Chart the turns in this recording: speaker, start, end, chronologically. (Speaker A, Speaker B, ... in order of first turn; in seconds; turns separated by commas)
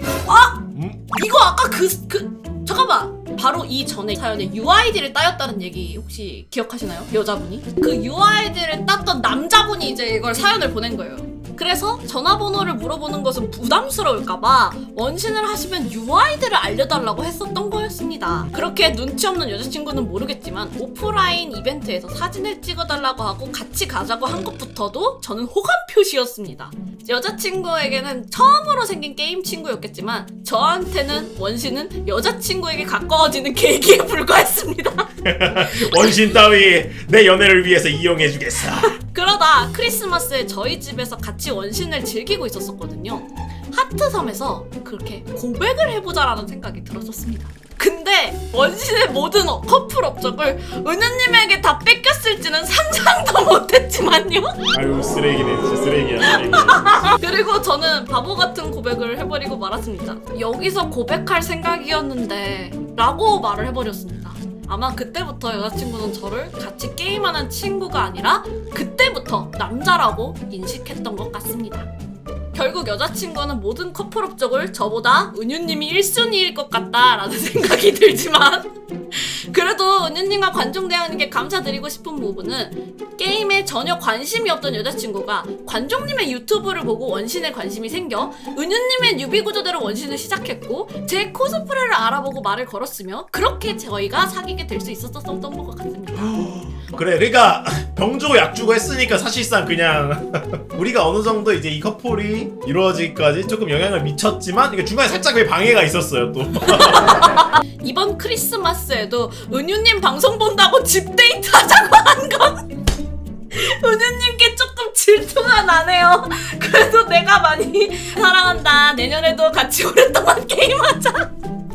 Speaker A: 0.2-35.1, Speaker B: 0.7-1.0, Speaker B: 35.2-39.0, Speaker A: 38.9-54.6, Speaker B: 54.7-57.0, Speaker A: 56.2-71.9, Speaker A: 72.5-96.6, Speaker B: 96.4-107.3, Speaker A: 106.6-112.7, Speaker A: 113.5-121.3